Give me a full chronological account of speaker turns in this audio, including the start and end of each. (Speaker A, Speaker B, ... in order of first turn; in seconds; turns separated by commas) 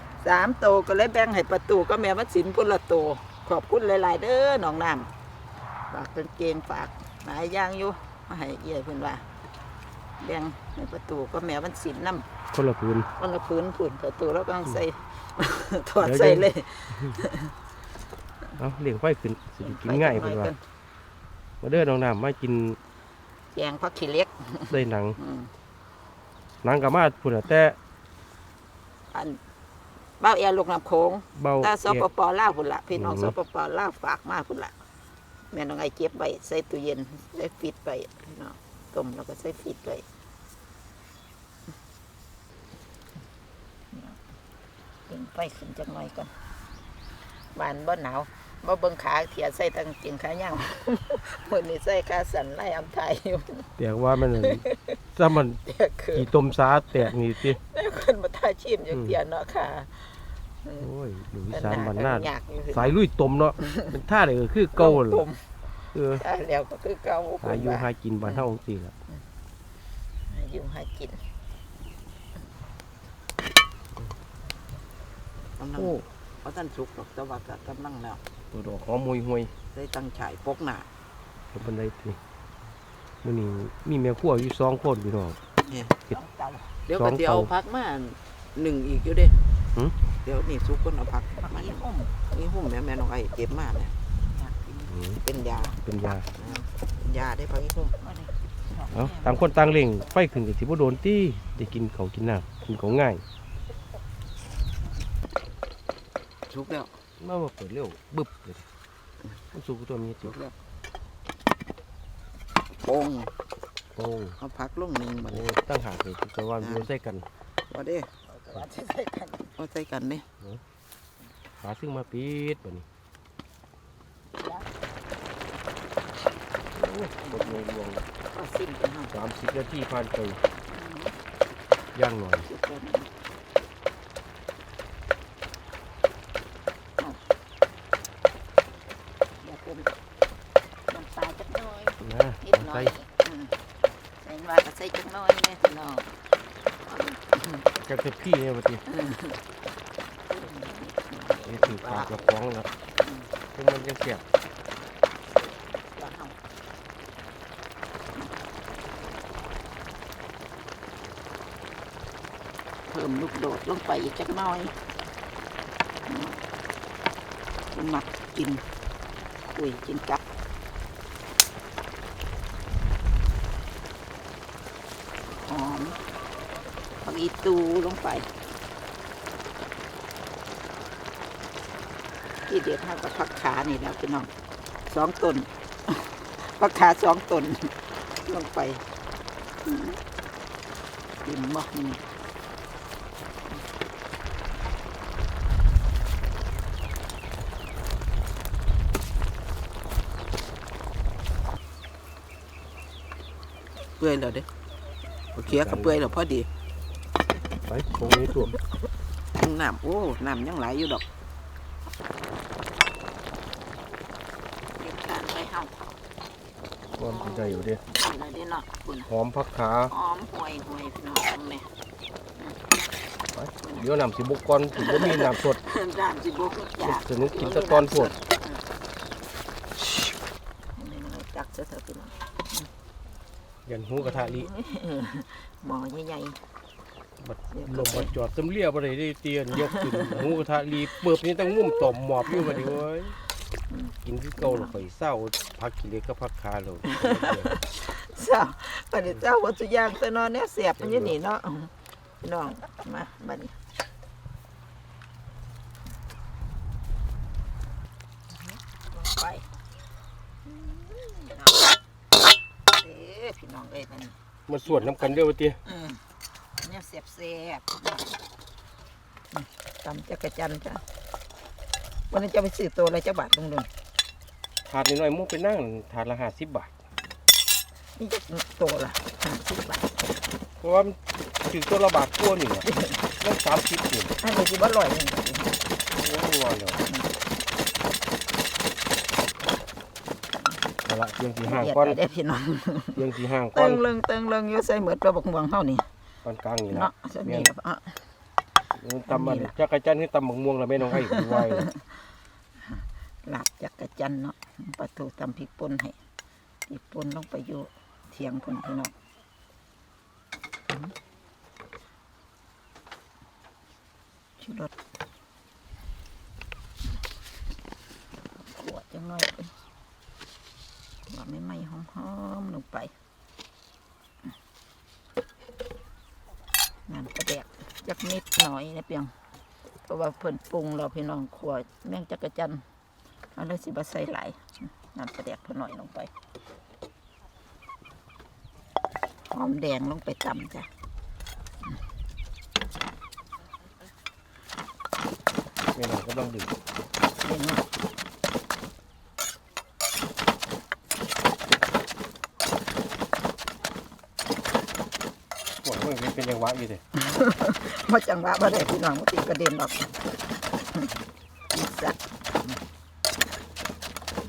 Speaker A: 0.2-5.1, Speaker A: 5.9-9.3, Speaker A: 10.2-12.3, Speaker B: 12.5-13.1, Speaker A: 13.2-17.5, Speaker B: 16.0-16.5, Speaker B: 18.6-20.5, Speaker A: 19.6-20.6, Speaker B: 21.6-22.8, Speaker A: 23.5-25.5, Speaker B: 24.7-25.2, Speaker B: 26.6-27.8, Speaker A: 29.1-29.4, Speaker A: 30.2-34.8, Speaker B: 31.4-32.1, Speaker B: 32.9-33.3, Speaker A: 35.5-40.0, Speaker A: 43.9-44.2, Speaker A: 45.1-46.3, Speaker A: 47.5-53.7, Speaker B: 53.8-55.6, Speaker A: 54.4-55.0, Speaker A: 55.6-56.3, Speaker B: 56.1-57.6, Speaker A: 56.9-60.9, Speaker B: 58.9-59.2, Speaker B: 60.8-65.2, Speaker A: 61.5-63.0, Speaker A: 63.6-63.9, Speaker A: 64.8-65.4, Speaker B: 65.9-66.2, Speaker A: 66.1-68.4, Speaker B: 67.4-68.9, Speaker A: 70.3-71.2, Speaker C: 75.6-78.2, Speaker B: 78.5-79.5, Speaker C: 79.7-80.9, Speaker B: 81.5-82.2, Speaker B: 83.2-85.4, Speaker C: 85.7-85.9, Speaker A: 86.1-86.8, Speaker C: 86.9-89.4, Speaker B: 86.9-87.5, Speaker C: 90.2-91.8, Speaker A: 91.4-92.1, Speaker C: 92.3-93.9, Speaker A: 94.4-94.9, Speaker B: 94.9-96.3, Speaker C: 95.2-98.0, Speaker A: 96.4-96.6, Speaker A: 98.0-99.6, Speaker B: 98.9-103.2, Speaker C: 106.5-106.9, Speaker B: 107.2-108.7, Speaker B: 109.5-110.4, Speaker C: 110.2-110.5, Speaker C: 112.8-113.3, Speaker B: 114.0-114.4, Speaker C: 114.4-115.5, Speaker B: 115.3-117.3, Speaker C: 117.7-118.1, Speaker A: 118.3-119.6, Speaker C: 119.6-120.2, Speaker B: 121.6-122.8, Speaker A: 124.4-124.7, Speaker B: 126.8-128.1, Speaker A: 127.2-127.6, Speaker A: 128.3-129.1, Speaker B: 129.1-130.4, Speaker A: 130.7-131.2, Speaker B: 131.9-132.5, Speaker A: 132.4-133.1, Speaker A: 139.4-139.9, Speaker A: 140.9-143.6, Speaker B: 142.0-142.9, Speaker A: 144.2-146.1, Speaker A: 146.9-147.7, Speaker B: 147.8-148.8, Speaker A: 148.9-149.4, Speaker A: 150.3-152.3, Speaker B: 151.5-152.7, Speaker A: 153.0-153.3, Speaker B: 153.6-154.2, Speaker A: 156.0-156.4, Speaker A: 162.9-164.8, Speaker A: 166.1-166.4, Speaker A: 167.7-168.6, Speaker A: 169.5-170.2, Speaker A: 175.4-176.0, Speaker A: 177.0-178.3, Speaker A: 182.5-184.3, Speaker A: 184.9-188.8, Speaker A: 189.7-190.0, Speaker A: 191.2-192.1, Speaker C: 204.0-204.5, Speaker B: 205.3-206.0, Speaker C: 205.5-206.5, Speaker B: 207.7-208.6, Speaker C: 209.4-211.0, Speaker A: 214.8-215.7, Speaker B: 217.0-217.8, Speaker A: 217.1-219.1, Speaker B: 219.1-219.9, Speaker A: 219.9-221.7, Speaker B: 223.3-225.6, Speaker A: 224.8-228.6, Speaker B: 226.8-228.1, Speaker A: 230.8-232.7, Speaker B: 233.7-234.5, Speaker A: 234.0-236.4, Speaker B: 237.2-243.2, Speaker A: 237.5-238.1, Speaker A: 239.6-240.4, Speaker A: 241.6-242.8, Speaker A: 243.7-244.8, Speaker B: 244.1-247.5, Speaker A: 246.8-253.5, Speaker B: 250.8-251.2, Speaker A: 258.5-259.5, Speaker A: 260.5-261.7, Speaker A: 262.8-266.0, Speaker B: 264.5-265.6, Speaker A: 266.6-268.2, Speaker A: 269.3-270.8, Speaker A: 272.1-273.7, Speaker B: 274.7-276.7, Speaker A: 278.0-279.9, Speaker B: 280.6-282.7, Speaker A: 282.6-283.0, Speaker B: 283.2-284.1, Speaker A: 284.2-285.6, Speaker B: 285.9-286.8, Speaker A: 286.8-287.1, Speaker B: 290.9-292.0, Speaker A: 291.4-295.9, Speaker B: 293.0-293.8, Speaker B: 296.2-297.5, Speaker A: 296.7-298.0, Speaker B: 298.8-301.7, Speaker A: 299.1-299.5, Speaker A: 300.9-302.0, Speaker A: 302.7-306.0, Speaker A: 306.7-308.9, Speaker A: 314.4-314.7, Speaker A: 318.4-319.5, Speaker A: 321.1-322.9, Speaker A: 326.9-329.1, Speaker A: 329.9-332.6, Speaker A: 333.4-336.1, Speaker A: 339.3-340.7, Speaker B: 345.8-346.5, Speaker A: 347.1-347.6, Speaker B: 355.6-356.8, Speaker A: 356.9-360.0, Speaker A: 361.5-362.6